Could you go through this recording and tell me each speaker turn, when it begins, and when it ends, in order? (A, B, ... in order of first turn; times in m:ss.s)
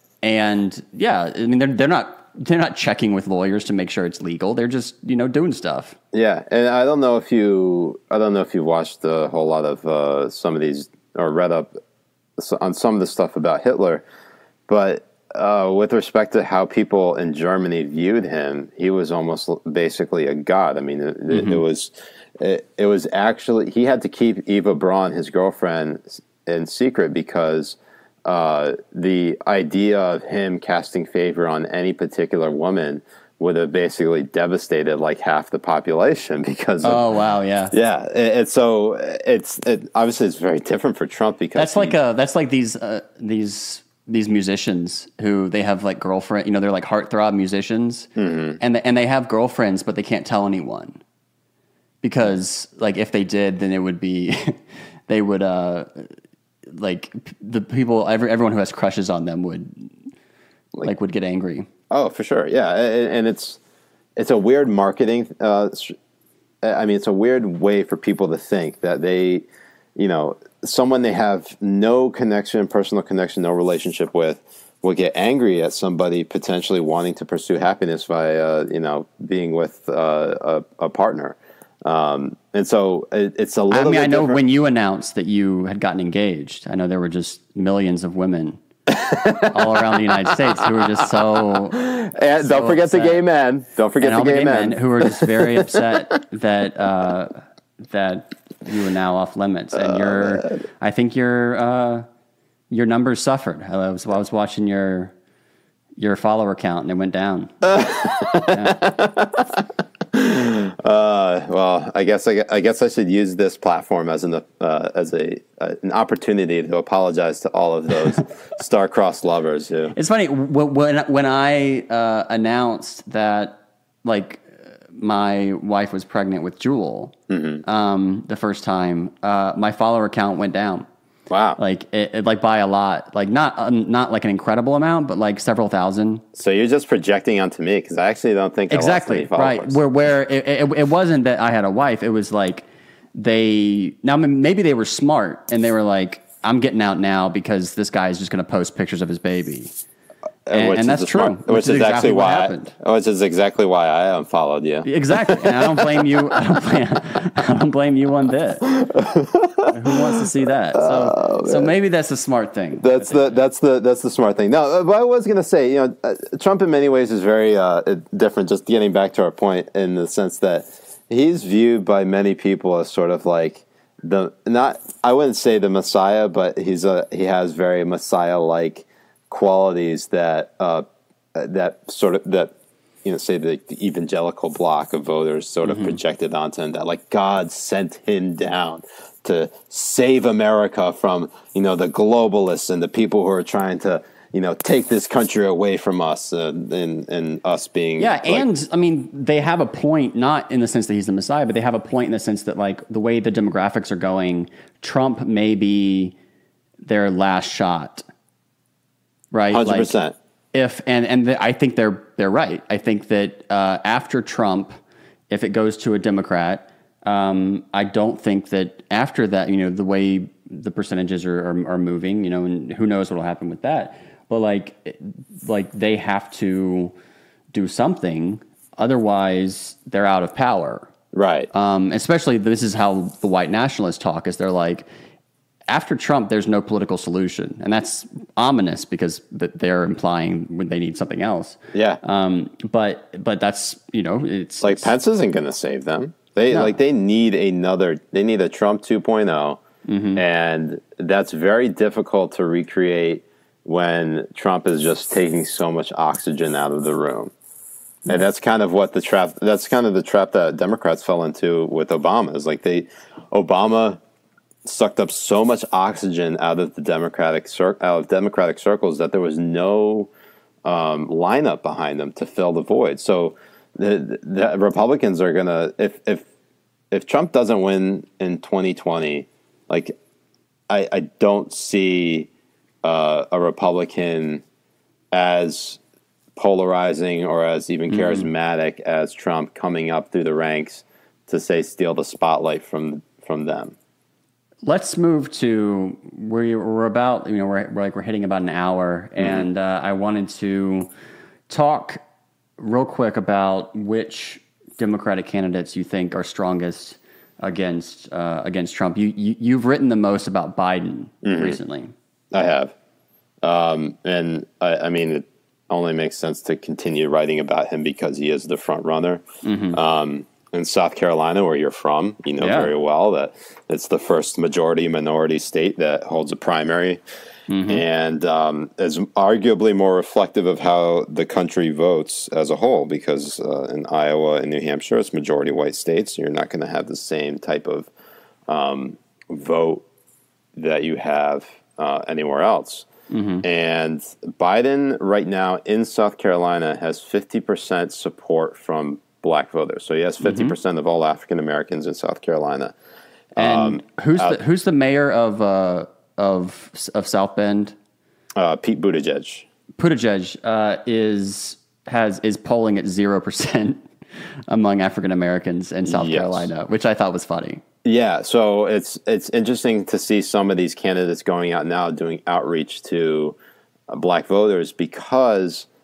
0:00.2-0:06.0 A
0:06.1-0:11.7 B
0:12.4-0:14.0 B
0:14.7-0:37.0 B
0:21.3-0:21.6 A
0:36.8-0:37.7 A
0:37.7-0:42.0 B
0:41.6-0:51.0 A
0:48.2-0:48.6 B
0:52.0-0:56.1 A
0:56.7-0:59.9 A
1:00.8-1:01.7 A
1:01.9-1:03.6 B
1:04.2-1:06.0 B
1:06.6-1:24.4 B
1:23.7-1:28.6 A
1:28.9-1:35.8 B
1:29.5-1:31.9 A
1:32.4-1:33.2 A
1:34.0-1:42.1 A
1:39.8-1:40.5 B
1:42.7-1:45.1 A
1:46.0-1:47.8 A
1:47.6-2:00.0 B
1:48.4-1:48.8 A
2:00.0-2:10.9 A
2:07.3-2:07.6 B
2:11.3-2:11.6 B
2:11.6-2:16.2 A
2:16.4-2:19.8 B
2:18.7-2:29.7 A
2:30.5-2:36.4 B
2:30.5-2:32.7 A
2:34.8-2:38.7 A
2:38.6-2:40.2 B
2:39.7-2:43.2 A
2:40.7-2:41.7 B
2:42.8-3:02.5 B
3:03.0-3:18.5 B
3:05.6-3:06.0 A
3:18.0-3:26.2 A
3:26.8-3:28.0 A
3:29.3-3:30.0 A
3:29.5-3:30.2 B
3:30.5-3:34.8 A
3:35.3-3:46.9 A
3:47.5-3:50.9 A
3:51.1-3:51.5 B
3:51.5-3:54.9 A
3:55.7-4:04.9 A
4:01.7-4:02.0 B
4:04.6-4:09.6 B
4:06.5-4:06.8 A
4:09.9-4:10.2 A
4:10.2-4:17.3 B
4:18.1-4:24.0 B
4:24.6-4:30.1 B
4:30.6-4:36.3 B
4:36.9-4:40.0 B
4:40.7-4:42.3 B
4:42.8-4:44.4 B
4:45.1-4:45.8 B
4:46.4-4:53.8 B
4:47.9-4:48.3 A
4:54.6-5:00.9 A
4:59.2-4:59.5 B
5:01.5-5:02.0 A
5:02.6-5:11.9 A
5:11.2-5:11.6 B
5:12.3-5:12.7 B
5:13.4-5:27.0 B
5:19.4-5:19.8 A
5:22.4-5:22.7 A
5:27.5-5:27.8 A
5:27.7-5:37.9 B
5:38.5-5:39.8 B
5:40.6-5:42.9 B
5:43.1-5:43.4 A
5:43.4-5:52.7 B
5:50.2-5:50.6 A
5:53.3-5:54.4 B
5:53.4-5:57.8 A
5:58.4-5:59.5 B
5:59.8-6:03.8 A
6:04.5-6:07.6 A
6:05.9-6:06.5 B
6:07.8-6:13.4 B
6:13.9-6:15.7 B